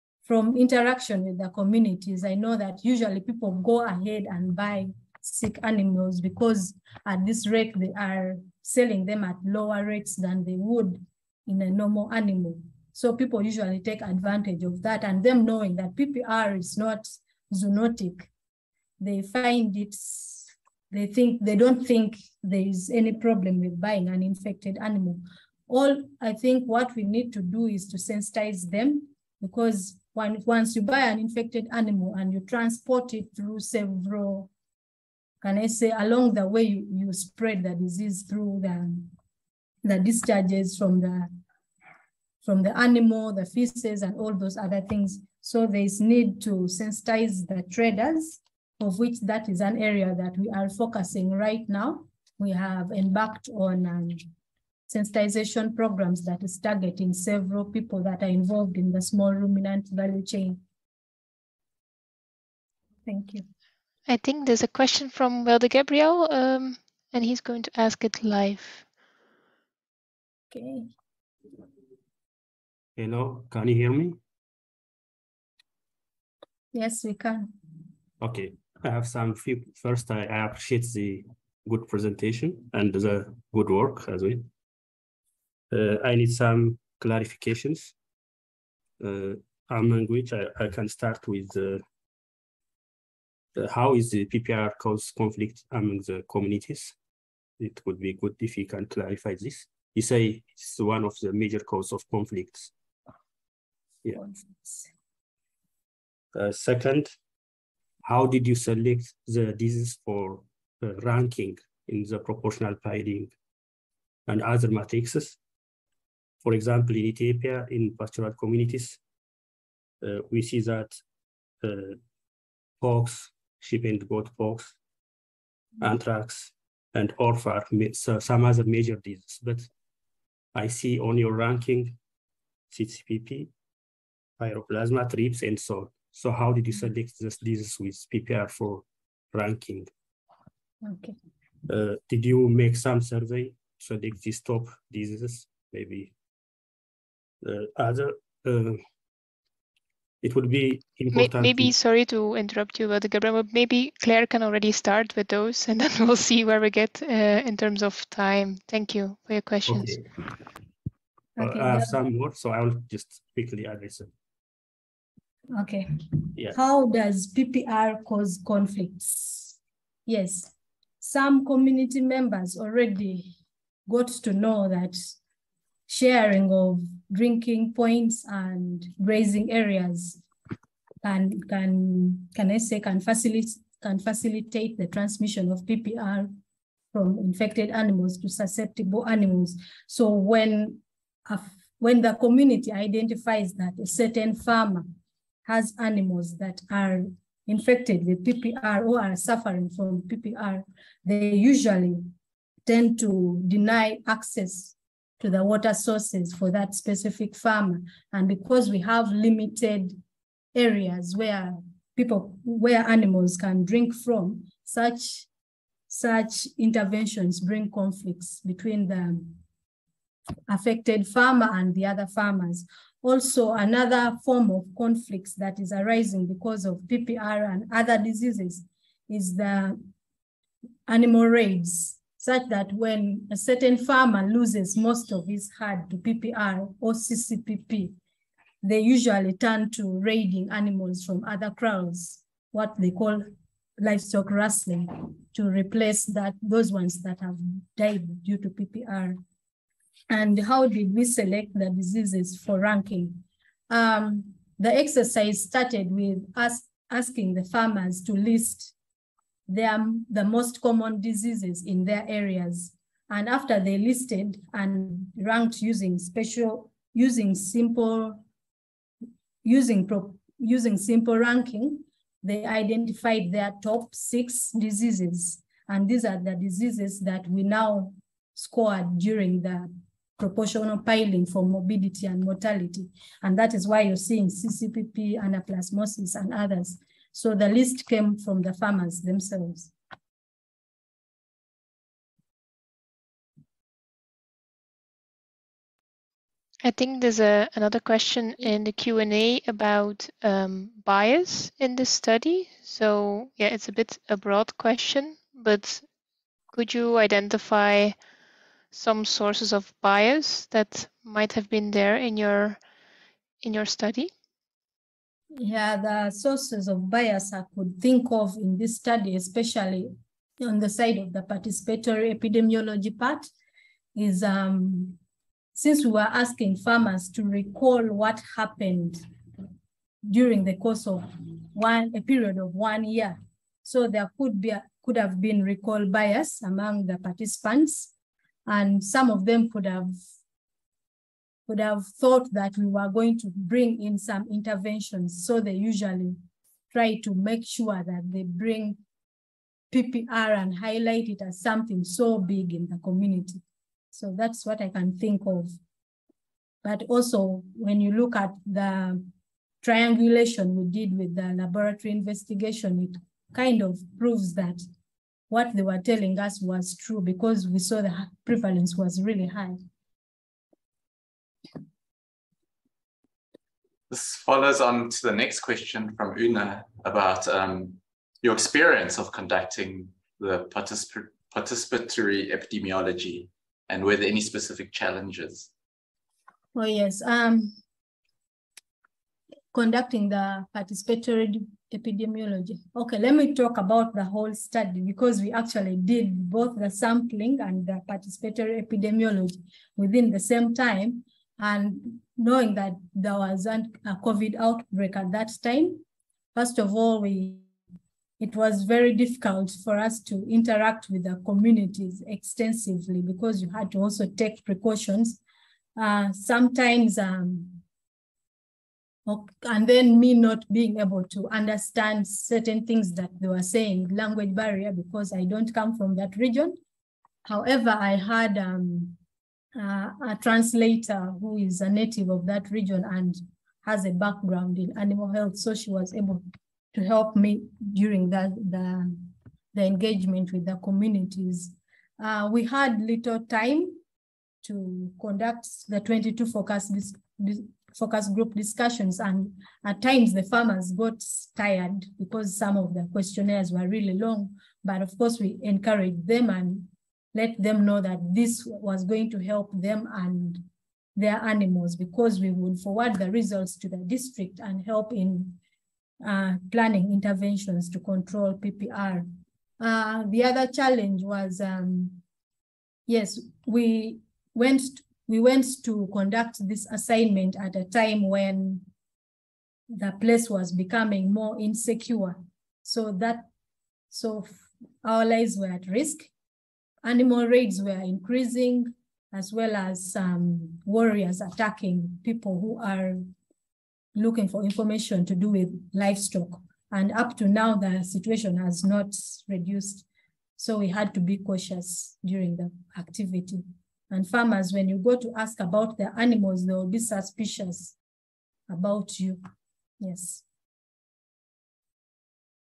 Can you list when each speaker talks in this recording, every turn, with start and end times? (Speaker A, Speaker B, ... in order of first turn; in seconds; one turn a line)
Speaker A: 0.2-18.3
Speaker A: 19.0-34.5
Speaker A: 35.4-39.1
Speaker A: 39.9-41.3
Speaker A: 42.4-54.2
Speaker A: 54.9-60.6
Speaker A: 63.1-63.5
Speaker B: 64.1-68.8
Speaker A: 70.5-70.9
Speaker C: 73.0-74.2
Speaker A: 76.7-77.5
Speaker C: 78.2-84.5
Speaker C: 85.7-87.9
Speaker C: 89.0-91.8
Speaker C: 93.6-97.0
Speaker C: 97.6-102.7
Speaker A: 104.1-104.9
Speaker C: 106.3-107.1
Speaker C: 108.0-113.3
Speaker C: 114.3-115.4
Speaker C: 116.4-119.0
Speaker C: 120.0-121.0
Speaker C: 121.6-122.0
Speaker C: 122.8-124.7
Speaker C: 125.8-129.7
Speaker C: 130.5-132.0
Speaker C: 132.7-133.5
Speaker C: 134.4-139.9
Speaker A: 140.8-141.2
Speaker C: 141.7-146.1
Speaker C: 147.4-148.8
Speaker C: 150.2-151.7
Speaker B: 151.1-160.0
Speaker C: 159.7-160.1
Speaker A: 161.4-162.0
Speaker C: 161.4-164.1
Speaker A: 165.5-169.6
Speaker A: 170.1-173.3
Speaker A: 173.9-175.1
Speaker A: 175.9-180.2
Speaker A: 181.0-186.3
Speaker A: 186.9-194.9
Speaker A: 195.4-202.1
Speaker A: 202.7-210.0
Speaker A: 210.6-215.3
Speaker A: 215.9-219.4
Speaker A: 220.5-229.8
Speaker A: 230.9-237.9
Speaker A: 238.6-243.3
Speaker A: 243.8-249.2
Speaker A: 250.1-258.7
Speaker A: 259.5-268.2
Speaker A: 269.4-289.7
Speaker B: 296.6-305.9
Speaker B: 306.5-307.9
Speaker B: 308.7-312.6
Speaker B: 313.4-314.1
Speaker A: 315.4-323.3
Speaker A: 323.9-325.0
Speaker A: 325.6-329.0
Speaker A: 330.0-337.9
Speaker A: 338.5-339.9
Speaker A: 341.5-348.8
Speaker A: 349.7-355.5
Speaker A: 356.6-364.6
Speaker A: 365.3-369.6
Speaker D: 373.9-385.5
Speaker A: 386.6-387.6
Speaker A: 389.5-405.8
Speaker A: 406.4-407.5
Speaker A: 408.2-415.2
Speaker A: 415.8-417.6
Speaker A: 419.1-426.6
Speaker A: 427.3-429.0
Speaker A: 429.6-443.8
Speaker A: 444.4-460.4
Speaker A: 460.9-465.4
Speaker A: 466.0-469.1
Speaker A: 469.6-472.0
Speaker A: 472.9-478.7
Speaker A: 479.7-483.3
Speaker A: 483.9-484.3
Speaker A: 484.8-486.1
Speaker A: 486.8-493.0
Speaker A: 493.9-499.9
Speaker A: 500.4-507.8
Speaker A: 508.5-509.2
Speaker A: 509.8-510.2